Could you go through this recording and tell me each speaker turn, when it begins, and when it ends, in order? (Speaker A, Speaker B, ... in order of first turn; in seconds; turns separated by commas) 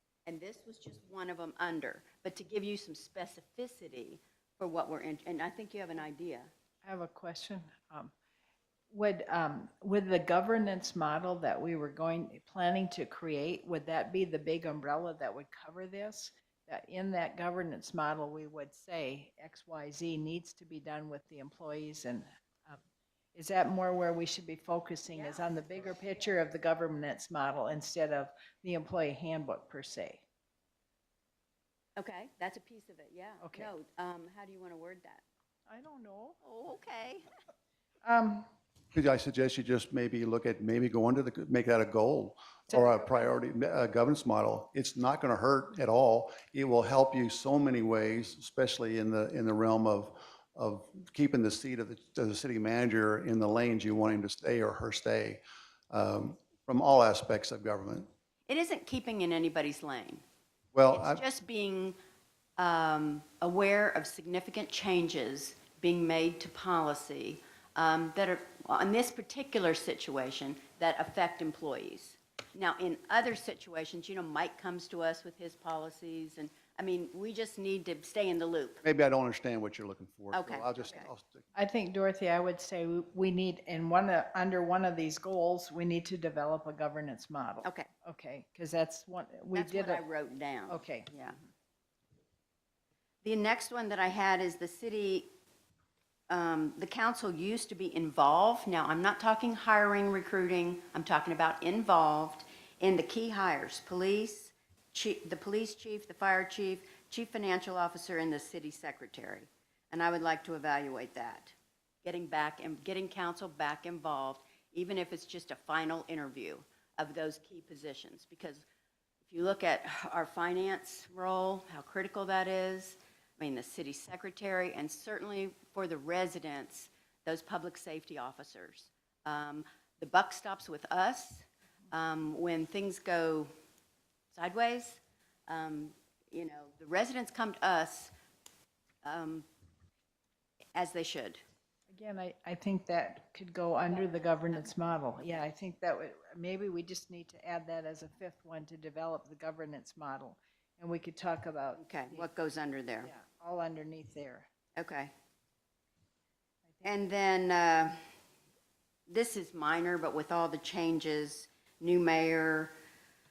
Speaker A: 0.2-6.5, Speaker B: 6.8-8.1, Speaker B: 8.9-22.8, Speaker B: 23.3-30.2, Speaker A: 25.1-26.4, Speaker A: 32.0-35.2, Speaker B: 33.4-33.7, Speaker B: 35.7-36.4, Speaker A: 36.4-37.3, Speaker B: 38.0-38.5, Speaker C: 38.9-58.1, Speaker B: 42.7-43.0, Speaker A: 58.5-60.2, Speaker C: 60.7-61.2, Speaker A: 60.9-62.0, Speaker A: 62.6-78.8, Speaker C: 78.8-81.4, Speaker A: 80.3-81.1, Speaker B: 81.5-90.0, Speaker A: 87.6-87.9, Speaker A: 89.5-91.3, Speaker B: 90.7-91.1, Speaker A: 93.2-95.3, Speaker A: 96.3-118.7, Speaker A: 119.2-133.5, Speaker A: 134.3-138.1, Speaker A: 139.0-139.4, Speaker A: 140.7-141.4, Speaker B: 141.9-152.3, Speaker A: 143.9-144.7, Speaker A: 151.8-153.1, Speaker B: 153.0-154.5, Speaker A: 154.8-155.1, Speaker B: 156.7-157.1, Speaker A: 156.8-158.0, Speaker A: 159.1-162.7